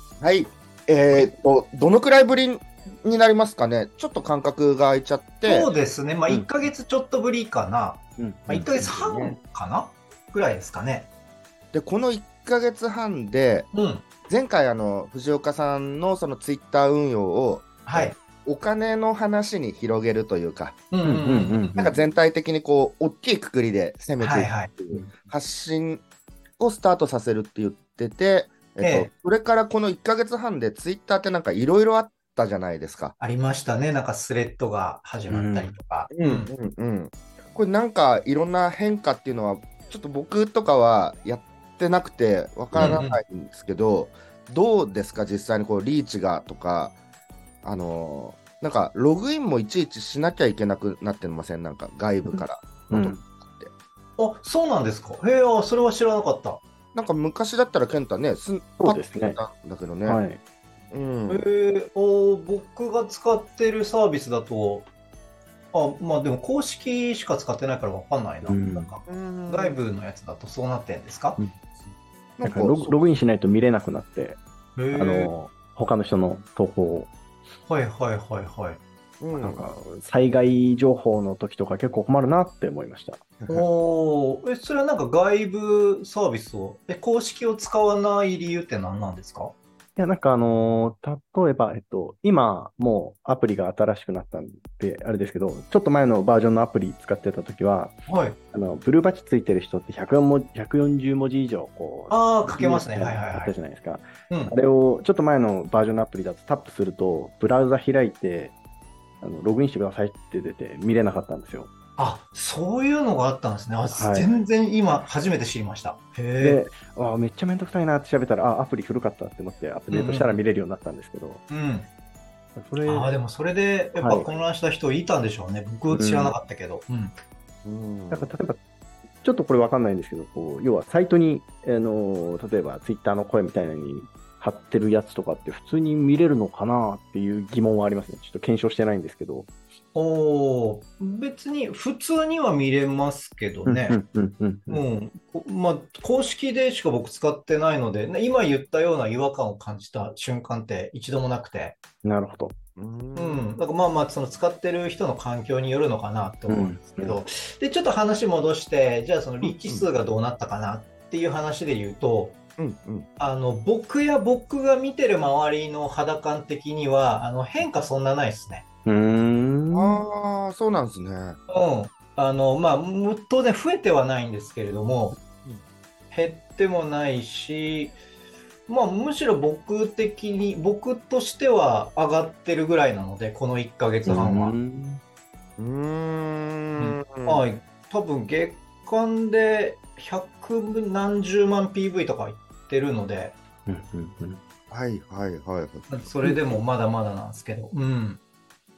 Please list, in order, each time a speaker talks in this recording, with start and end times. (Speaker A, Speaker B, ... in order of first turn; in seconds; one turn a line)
Speaker A: 0.2-5.7
Speaker B: 5.5-11.1
Speaker C: 8.2-8.7
Speaker A: 8.7-9.4
Speaker A: 11.7-13.7
Speaker B: 13.7-14.1
Speaker A: 14.3-20.8
Speaker B: 17.9-18.2
Speaker B: 20.9-21.8
Speaker C: 21.0-21.9
Speaker A: 21.8-26.0
Speaker B: 24.2-24.7
Speaker A: 26.6-33.1
Speaker B: 28.8-29.1
Speaker B: 33.2-36.5
Speaker C: 35.3-35.8
Speaker A: 36.1-47.0
Speaker C: 42.7-43.0
Speaker B: 42.8-43.2
Speaker A: 47.6-53.7
Speaker C: 52.3-53.2
Speaker B: 54.2-56.6
Speaker A: 57.0-60.2
Speaker C: 58.8-59.4
Speaker C: 60.1-60.4
Speaker A: 60.9-61.4
Speaker B: 61.3-64.9
Speaker B: 65.7-71.4
Speaker C: 68.5-68.9
Speaker A: 69.1-69.8
Speaker A: 72.4-73.0
Speaker C: 72.4-74.4
Speaker B: 74.8-75.3
Speaker C: 74.9-77.1
Speaker B: 77.7-78.8
Speaker A: 79.2-79.6
Speaker C: 79.4-83.2
Speaker B: 83.5-89.5
Speaker C: 90.0-98.0
Speaker B: 98.1-98.4
Speaker C: 98.5-108.5
Speaker B: 102.1-103.5
Speaker C: 109.2-111.7
Speaker B: 112.0-116.6
Speaker C: 113.9-114.3
Speaker C: 116.4-121.4
Speaker B: 119.9-120.4
Speaker B: 121.5-121.9
Speaker C: 122.5-123.2
Speaker B: 122.8-127.1
Speaker C: 124.0-124.3
Speaker C: 125.9-126.4
Speaker A: 127.6-128.3
Speaker C: 128.1-128.6
Speaker C: 129.2-139.5
Speaker B: 139.9-144.0
Speaker C: 143.7-144.8
Speaker B: 144.7-151.8
Speaker C: 152.0-152.6
Speaker A: 152.8-153.5
Speaker B: 153.2-162.4
Speaker C: 156.5-157.2
Speaker A: 162.6-163.1
Speaker B: 163.2-168.7
Speaker C: 168.9-170.0
Speaker A: 169.7-171.4
Speaker B: 171.5-175.2
Speaker B: 176.1-178.0
Speaker B: 178.7-184.6
Speaker C: 184.1-185.0
Speaker A: 185.6-187.4
Speaker B: 186.8-193.4
Speaker C: 193.7-194.4
Speaker A: 194.7-196.3
Speaker B: 195.9-198.2